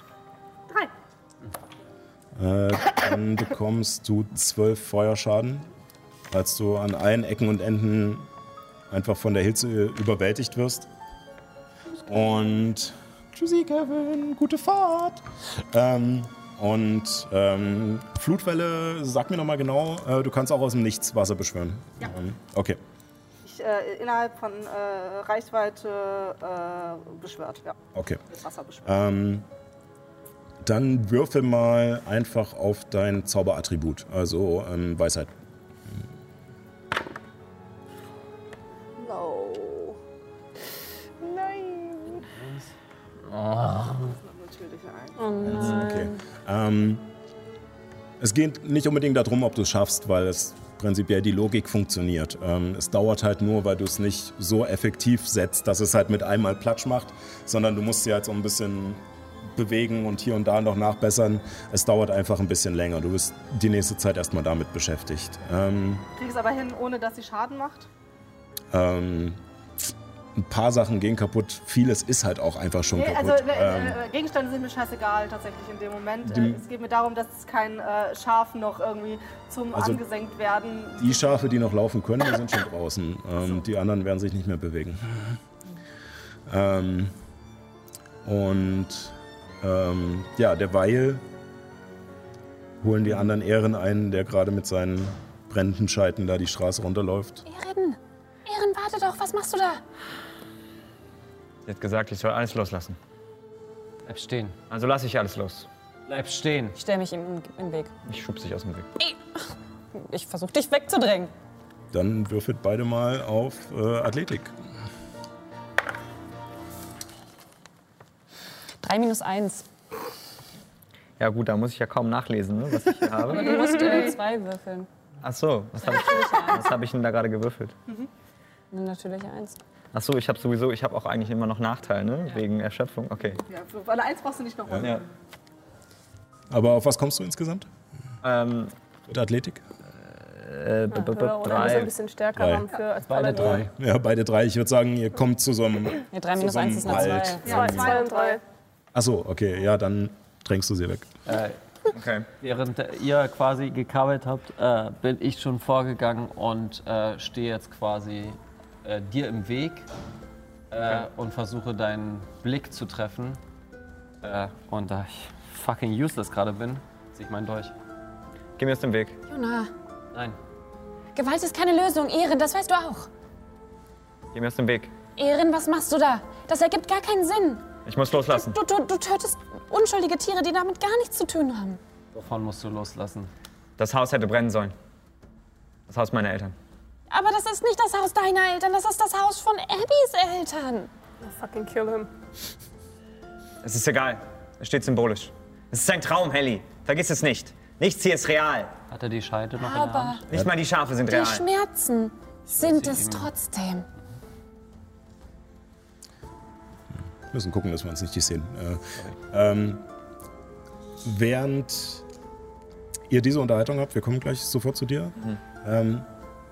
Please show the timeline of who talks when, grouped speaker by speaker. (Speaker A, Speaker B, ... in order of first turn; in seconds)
Speaker A: 2.4-5.7, 6.3-8.3, 8.9-10.9, 12.0-22.8, 27.9-28.2, 28.8-29.4, 30.6-35.3, 45.4-47.0, 48.2-66.0, 68.7-74.0, 76.2-76.6, 79.7-80.0, 81.0-85.4, 86.5-87.2, 88.2-91.2, 92.8-97.4, 111.9-114.5, 136.5-137.7, 139.1-139.6, 142.3-142.7, 143.3-147.8, 148.9-151.1, 207.3-209.8, 211.0-212.0, 213.1-216.1
Speaker B: 23.4-27.8, 28.3-28.9, 39.0-40.0, 41.2-42.3, 43.9-45.2, 66.2-67.9, 72.9-81.2, 133.4-135.1, 147.4-148.4
Speaker C: 43.3-44.1, 104.0-104.5, 106.1-106.8, 143.1-143.7, 151.2-151.6, 152.4-159.9, 160.7-163.4, 164.2-167.7, 182.1-183.3, 198.9-200.2, 202.5-203.3
Speaker D: 45.2-46.1, 97.5-99.8, 106.8-107.9, 109.0-111.3, 118.8-119.7, 123.3-124.9, 125.8-126.7, 128.7-129.6, 146.1-147.9, 169.3-169.7, 171.1-173.1, 175.2-177.6, 178.2-181.8, 187.1-190.9, 199.6-200.2, 201.1-203.8
Speaker E: 45.5-45.9, 101.7-103.0, 104.7-105.7, 108.1-108.9, 121.2-123.8, 125.2-127.7, 129.9-133.4, 138.2-138.7, 140.1-141.9, 151.9-152.3, 168.6-169.2, 174.3-174.9, 177.8-178.6, 183.8-184.7, 185.9-186.5, 193.6-198.8, 200.3-201.4
Speaker F: 123.4-124.1, 140.9-143.7, 147.4-148.4, 191.2-192.1